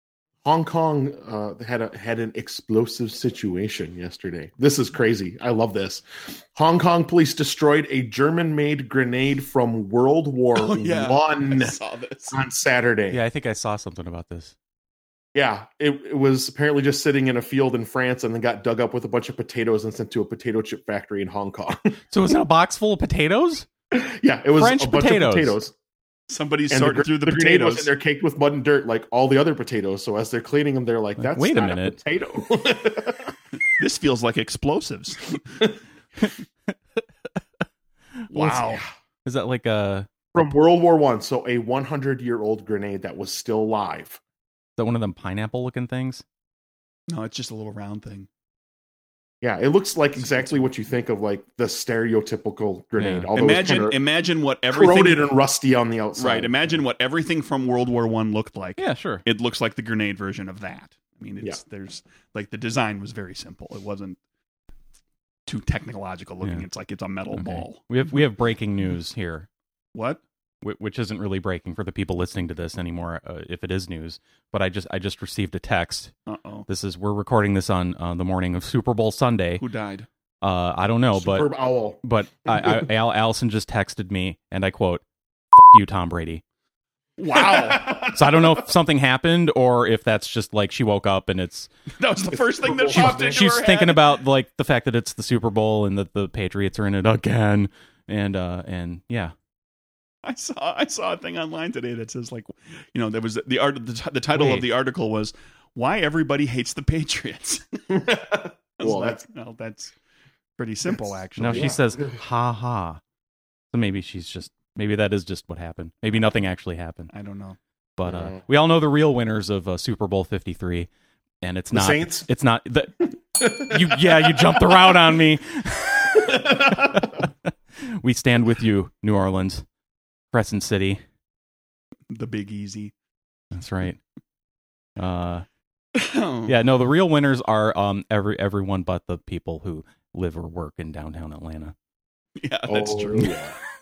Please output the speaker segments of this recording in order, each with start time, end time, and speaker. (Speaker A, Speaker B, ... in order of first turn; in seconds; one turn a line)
Speaker A: 0.4-11.8
Speaker B: 10.6-12.4
Speaker A: 12.3-13.2
Speaker C: 13.1-14.5
Speaker A: 15.3-21.9
Speaker C: 22.1-23.7
Speaker A: 23.9-25.7
Speaker C: 24.6-25.6
Speaker B: 26.3-27.9
Speaker A: 26.7-33.4
Speaker C: 31.2-32.0
Speaker B: 33.8-35.6
Speaker C: 38.3-40.1
Speaker B: 38.3-38.8
Speaker A: 40.3-44.2
Speaker C: 44.8-46.2
Speaker B: 47.1-48.3
Speaker A: 49.4-54.0
Speaker B: 50.2-50.5
Speaker C: 53.0-53.3
Speaker B: 53.3-55.3
Speaker A: 54.7-56.6
Speaker B: 56.2-64.2
Speaker C: 58.8-59.2
Speaker B: 65.5-67.8
Speaker C: 67.3-69.5
Speaker B: 69.9-70.2
Speaker C: 70.6-76.1
Speaker B: 76.3-76.7
Speaker C: 76.7-79.6
Speaker B: 79.6-80.1
Speaker C: 80.4-81.5
Speaker A: 81.2-82.8
Speaker C: 82.0-86.4
Speaker B: 87.2-87.8
Speaker A: 87.3-88.4
Speaker C: 87.6-91.7
Speaker B: 92.0-94.1
Speaker A: 92.5-93.4
Speaker C: 92.9-99.3
Speaker B: 100.2-108.0
Speaker C: 104.3-104.7
Speaker A: 107.9-109.2
Speaker B: 108.8-110.0
Speaker B: 110.6-111.8
Speaker C: 111.4-113.0
Speaker A: 111.5-111.8
Speaker C: 113.7-117.1
Speaker B: 117.1-117.6
Speaker C: 118.0-120.9
Speaker A: 118.1-118.3
Speaker C: 121.4-129.7
Speaker A: 121.7-122.3
Speaker A: 123.4-124.7
Speaker A: 126.2-127.1
Speaker C: 130.3-131.0
Speaker B: 132.1-132.9
Speaker C: 133.5-134.0
Speaker C: 135.0-135.5
Speaker B: 135.9-136.6
Speaker C: 136.5-141.8
Speaker B: 142.4-143.3
Speaker A: 142.7-143.6